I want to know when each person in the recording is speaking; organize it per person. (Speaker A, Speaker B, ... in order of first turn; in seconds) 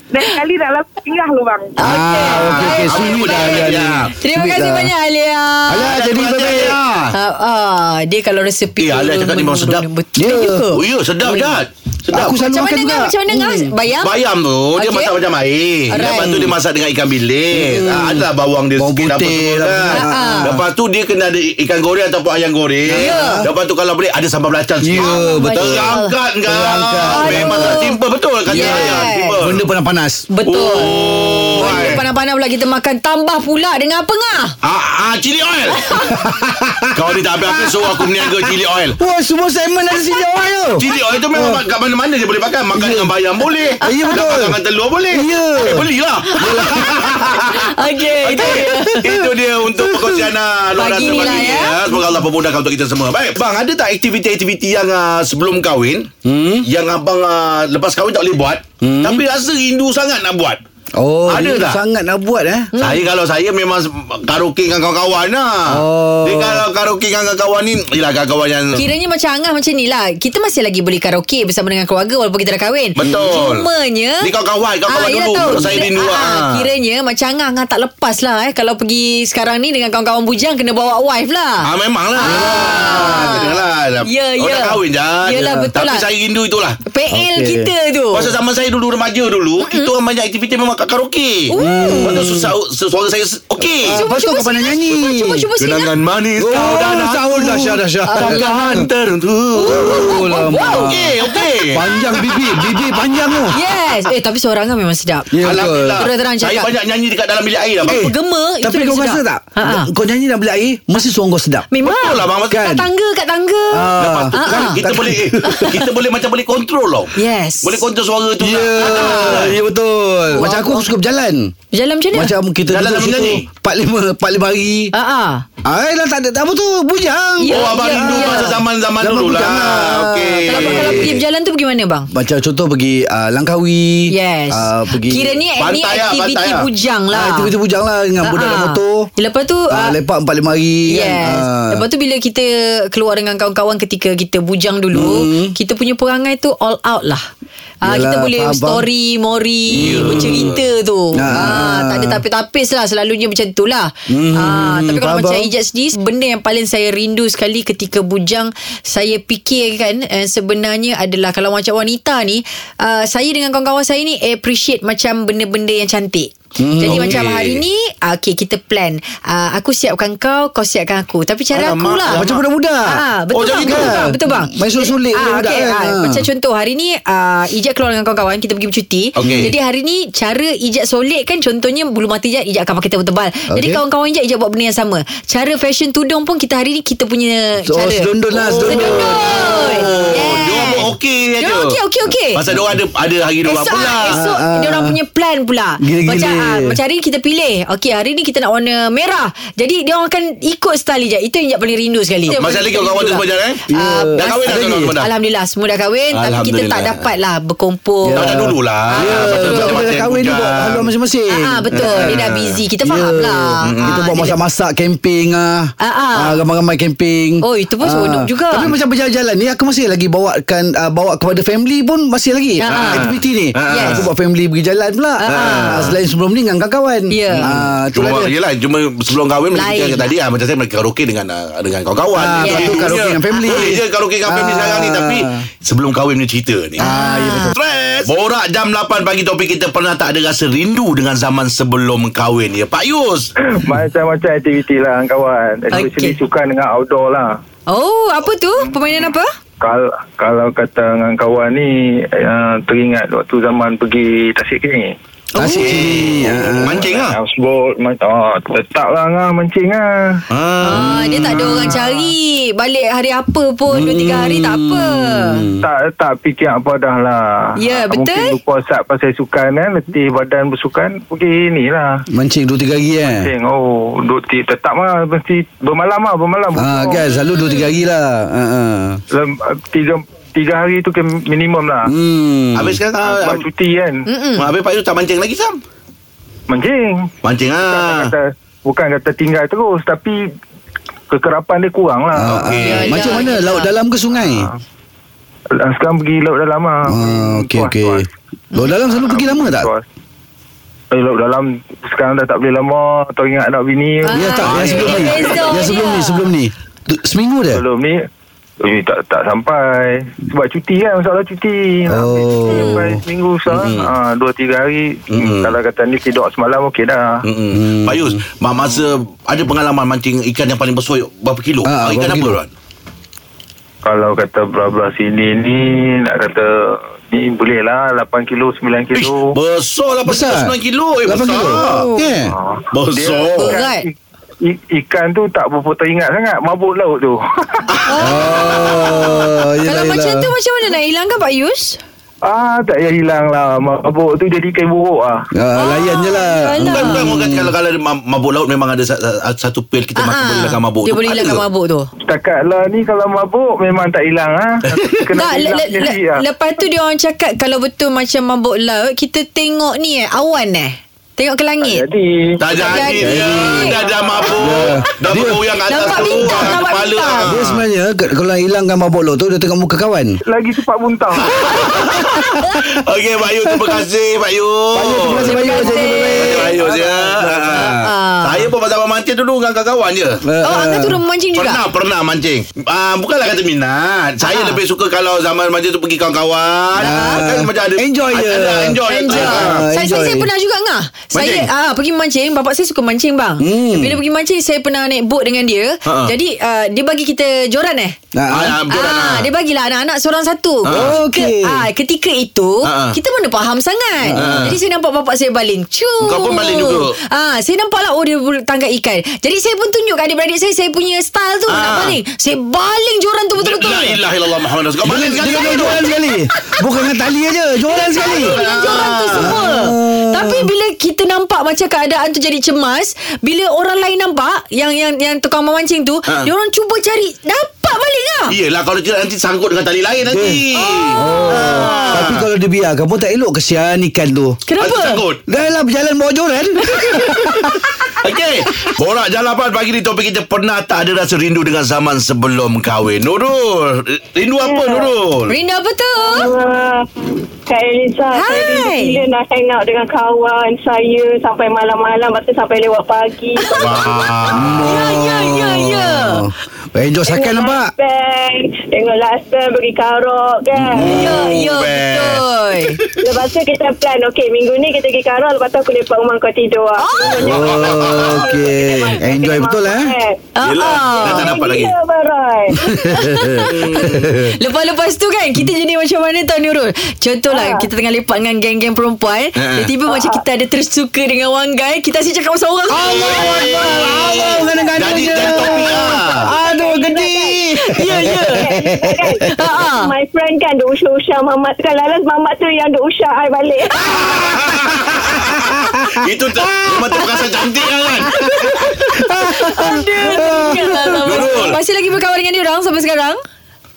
Speaker A: 0.3-1.0, 444.4-444.9, 446.0-454.3, 457.1-461.2, 463.0-470.2, 470.9-472.7, 477.3-477.7, 479.9-480.2, 484.2-485.7, 486.3-487.5, 488.2-494.0, 500.1-500.5
Speaker B: 1.8-5.9, 7.1-11.5, 12.2-14.1, 14.8-15.1, 15.9-16.5, 19.9-20.6, 22.9-23.4, 25.0-26.1, 27.0-28.0, 28.5-29.4, 30.3-30.9, 31.6-34.5, 43.8-44.1, 46.3-49.1, 50.7-51.8, 62.7-63.0, 68.7-74.3, 74.9-81.6, 82.2-86.0, 86.9-88.3, 89.6-89.9, 91.5-92.3, 93.9-95.9, 98.1-98.8, 99.5-101.5, 103.5-106.7, 107.8-109.9, 111.7-114.8, 115.4-115.9, 117.2-117.8, 118.9-119.4, 120.3-120.9, 121.7-122.3, 124.9-125.4, 127.4-128.6, 130.5-132.1, 134.1-137.5, 138.2-140.0, 140.9-147.2, 147.8-172.2, 172.9-190.9, 191.4-192.4, 193.4-209.8, 211.3-214.3, 215.8-216.4, 217.4-218.7, 222.6-223.1, 223.7-224.1, 225.2-226.0, 227.1-227.5, 229.5-230.1, 232.4-233.7, 236.8-237.5, 245.7-246.2, 247.7-249.3, 255.4-255.7, 260.6-265.4, 267.6-268.3, 277.2-277.6, 284.1-284.5, 292.6-293.7, 304.0-306.3, 312.5-312.8, 331.4-332.1, 333.4-333.8, 337.9-341.8, 345.6-347.0, 350.0-351.9, 355.2-361.8, 362.5-363.8, 365.7-367.3, 375.2-376.5, 377.5-378.5, 380.4-381.6, 384.2-384.6, 386.8-387.2, 388.9-398.0, 398.7-414.0, 415.4-415.9, 417.7-428.3, 430.5-432.1, 434.4-435.0, 436.7-437.6, 445.3-446.3, 448.1-449.0, 453.4-453.7, 454.6-456.2, 460.8-462.8, 466.8-467.6, 470.4-471.3, 472.6-473.8, 474.4-484.1, 487.6-488.5, 489.3-489.9, 493.8-494.1, 498.1-503.2
Speaker C: 1.8-4.9, 5.7-6.8, 10.2-10.6, 12.1-13.7, 17.5-18.2, 18.8-20.6, 22.9-23.5, 24.8-27.9, 28.5-30.3, 36.1-36.9, 39.0-41.6, 42.7-43.1, 43.8-44.6, 45.1-45.8, 46.4-47.1, 48.4-50.3, 51.1-51.6, 56.2-56.6, 58.8-59.2, 61.0-62.7, 65.7-66.6, 75.4-75.8, 82.2-83.5, 87.1-87.7, 91.5-92.5, 93.6-95.5, 96.4-98.9, 99.6-101.1, 101.7-103.6, 105.3-106.0, 107.9-111.7, 112.5-112.9, 113.7-115.6, 118.4-121.5, 122.1-124.9, 125.6-131.2, 132.1-135.4, 137.1-139.1, 139.7-141.8, 144.9-145.5, 147.8-148.8, 149.7-150.5, 151.1-152.2, 154.1-155.5, 166.6-167.2, 172.1-173.0, 173.6-176.2, 179.2-179.5, 183.5-183.8, 187.7-190.1, 194.1-195.0, 195.8-196.8, 203.7-204.9, 208.0-212.2, 212.8-228.3, 232.1-235.4, 236.8-237.6, 255.3-256.9, 260.8-261.7, 263.7-265.6, 272.1-273.3, 276.6-279.0, 281.9-282.8, 292.1-294.5, 296.9-299.7, 304.1-307.6, 311.9-313.0, 317.5-318.2, 321.6-322.4, 330.1-330.5, 331.0-332.4, 338.0-340.3, 345.3-347.5, 363.0-363.7, 364.4-365.4, 366.2-366.5, 367.3-370.2, 371.9-372.3, 374.7-377.7, 380.2-381.0, 386.8-390.3, 393.4-394.0, 398.1-398.6, 400.7-401.6, 404.0-404.5, 414.8-418.4, 419.1-420.5, 430.1-430.4, 430.9-434.4, 435.3-437.6, 454.4-457.7, 467.2-469.9, 472.7-474.1, 482.7-489.2, 495.1-496.0, 499.0-501.0
Speaker D: 2.3-4.1, 5.9-7.1, 8.8-9.8, 10.7-12.4, 14.0-29.6, 30.4-32.0, 34.6-36.0, 36.9-39.0, 40.8-56.1, 56.6-60.6, 61.2-61.8, 62.8-68.8, 73.0-73.7, 74.2-76.6, 81.6-86.8, 88.1-94.0, 95.6-102.8, 105.4-108.1, 111.8-112.7, 114.0-119.6, 122.7-123.5, 127.5-131.2, 135.6-136.7, 149.7-150.6, 166.8-167.6, 171.5-172.4, 173.3-174.0, 179.2-179.5, 188.5-191.8, 192.3-194.2, 202.3-203.6, 204.2-205.1, 206.1-207.0, 208.2-210.9, 211.7-212.6, 213.6-214.0, 222.7-224.1, 225.4-225.9, 227.3-236.8, 237.5-243.3, 255.4-257.2, 260.3-261.5, 282.5-283.4, 284.4-285.6, 287.2-288.1, 292.2-293.0, 304.4-305.6, 313.5-313.9, 315.1-315.5, 317.2-322.5, 328.9-331.8, 332.7-333.6, 337.7-338.0, 346.6-351.4, 362.4-367.6, 371.3-380.2, 381.4-389.6, 391.1-391.5, 395.9-396.1, 398.3-399.3, 400.6-400.9, 402.6-403.0, 404.1-404.6, 406.0-406.9, 411.5-412.0, 413.4-415.8, 418.0-419.4, 428.3-432.2, 434.6-435.2, 438.0-445.3, 453.6-454.8, 460.6-462.2, 467.1-468.2, 470.4-471.7, 473.4-474.3, 479.4-479.7, 483.0-484.2, 484.8-486.3, 493.9-498.7, 501.0-501.6
Speaker E: 243.5-247.3, 249.6-254.9, 256.4-260.2, 265.6-272.0, 273.0-277.1, 279.1-281.9, 283.0-284.0, 286.5-287.1, 287.7-290.2, 291.1-292.5, 294.2-294.6, 295.5-298.1, 298.9-299.8, 300.9-304.3, 307.5-308.0, 308.6-317.2, 323.8-329.3, 332.2-333.9, 334.4-337.6, 342.2-345.3, 352.1-356.2, 361.6-362.9, 363.8-364.7, 370.3-371.6